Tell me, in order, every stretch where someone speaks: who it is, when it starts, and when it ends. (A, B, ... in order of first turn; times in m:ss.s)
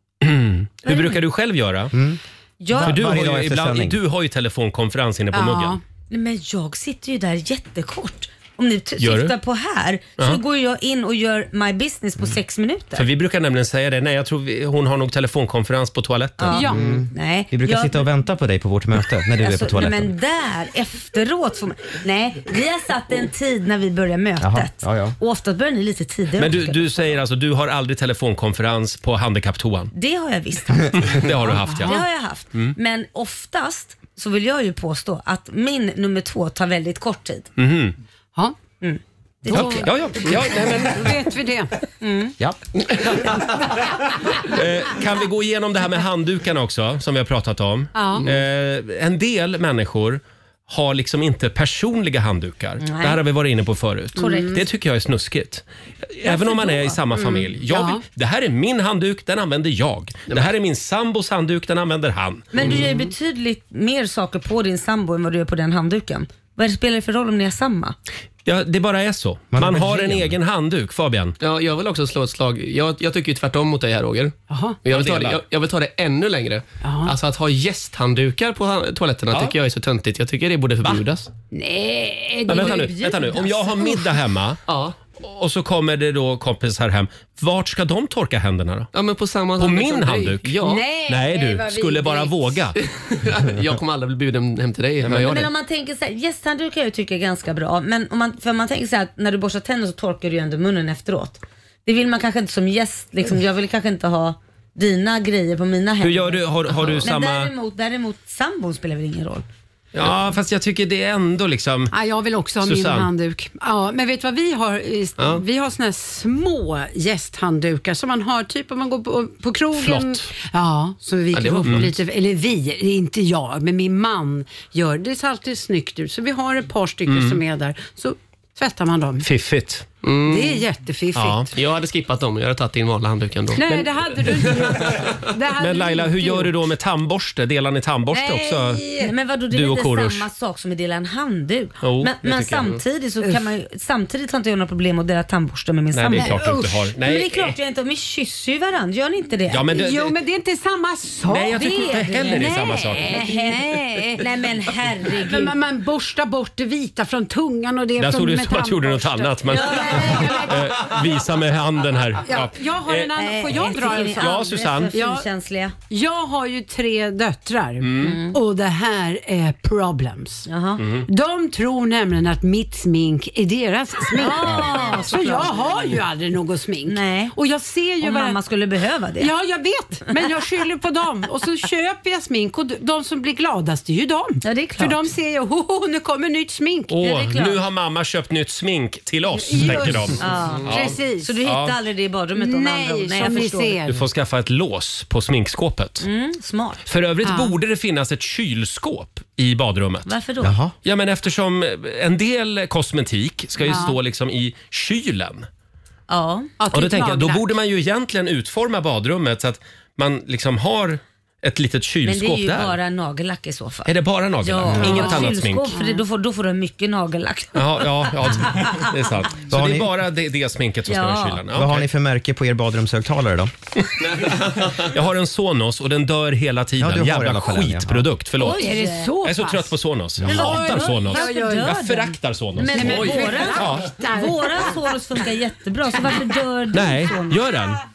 0:00.2-0:01.9 A
0:00.8-0:01.2 B
0:01.9-0:04.0 C
0:02.6-0:03.0 B
0:02.8-0:05.8 A
0:05.3-0:05.8 D
0:06.1-0:13.0 B
0:09.0-0:09.3 A
0:13.0-0:16.9 A
0:16.4-0:18.1 B
0:16.5-0:16.8 D
0:16.7-0:20.1 C
0:19.4-0:27.0 B
0:24.4-0:25.2 C
0:26.4-0:29.9 A
0:29.9-0:31.2 B
0:31.0-0:32.0 A
0:31.4-0:31.9 D
0:31.8-0:37.5 B
0:37.6-0:37.9 A
0:38.8-0:39.9 B
0:39.5-0:41.7 D
0:39.5-0:41.2 A
0:42.0-0:42.3 B
0:44.5-1:02.8 A
0:47.9-0:48.2 D
0:52.8-0:53.2 B
0:54.2-0:54.6 D
0:54.2-0:54.6 B
0:56.2-0:57.0 B
0:57.2-0:58.0 D
1:02.5-1:08.0 B
1:08.4-1:11.4 A
1:09.5-1:10.3 C
1:11.4-1:21.3 E
1:14.5-1:14.8 D
1:14.9-1:15.4 A
1:16.8-1:17.1 D
1:21.5-1:23.0 D
1:22.5-1:24.6 A
1:22.5-1:24.0 B
1:24.7-1:25.0 E
1:25.2-1:28.9 A
1:28.9-1:30.8 E
1:29.6-1:32.8 A
1:30.6-1:32.3 D
1:32.8-1:35.5 E
1:35.0-1:35.3 A
1:35.2-1:49.4 B
1:46.0-1:47.5 A
1:49.9-1:51.9 A
1:51.9-2:09.2 D
1:52.6-1:53.1 A
1:59.7-2:00.3 A
2:01.3-2:01.9 E
2:01.3-2:01.9 A
2:07.1-2:07.4 A
2:09.2-2:09.9 A
2:10.0-2:10.6 E
2:10.2-2:11.5 D
2:11.1-2:11.5 A
2:11.5-2:13.9 E
2:13.5-2:16.7 D
2:14.3-2:14.7 A
2:15.6-2:18.9 A
2:18.1-2:19.1 D
2:19.0-2:26.4 B
2:19.5-2:20.3 A
2:21.8-2:22.7 A
2:25.9-2:27.6 A
2:26.1-2:26.8 D
2:27.0-2:29.7 B
2:29.5-2:30.2 A
2:29.7-2:34.3 D
2:31.2-2:33.2 A
2:31.9-2:35.6 B
2:35.0-2:41.2 D
2:38.0-2:44.9 A
2:39.5-2:40.5 B
2:42.2-2:45.3 D
2:43.2-2:45.7 B
2:45.9-2:50.4 D
2:47.8-2:48.2 A
2:48.0-2:48.4 B
2:50.5-2:50.8 B
2:50.8-2:51.0 A
2:51.0-2:58.4 D
2:54.2-2:55.8 B
2:56.8-2:57.3 B
2:58.0-2:59.3 B
2:59.2-3:07.0 D
3:04.4-3:05.1 B
3:06.9-3:11.7 A
3:07.0-3:07.6 B
3:09.3-3:11.4 D
3:10.2-3:13.8 B
3:12.4-3:14.0 D
3:13.9-3:16.0 A
3:16.0-3:16.8 B
3:16.8-3:20.1 A
3:17.2-3:17.5 D
3:20.0-3:20.6 B
3:20.4-3:20.7 C
3:20.8-3:25.5 A
3:23.6-3:23.9 D
3:26.1-3:26.5 B
3:26.6-3:27.5 D
3:26.7-3:32.8 A
3:32.0-3:38.9 B
3:33.8-3:35.7 A
3:34.8-3:36.0 D
3:37.5-3:41.8 A
3:39.5-3:39.9 C
3:40.9-3:41.4 B
3:41.5-3:43.5 C
3:44.2-3:53.9 A
3:46.8-3:48.1 C
3:48.4-3:49.1 B
3:48.4-3:51.8 D
3:50.2-3:57.5 B
3:52.7-3:54.9 D
3:56.7-3:57.8 A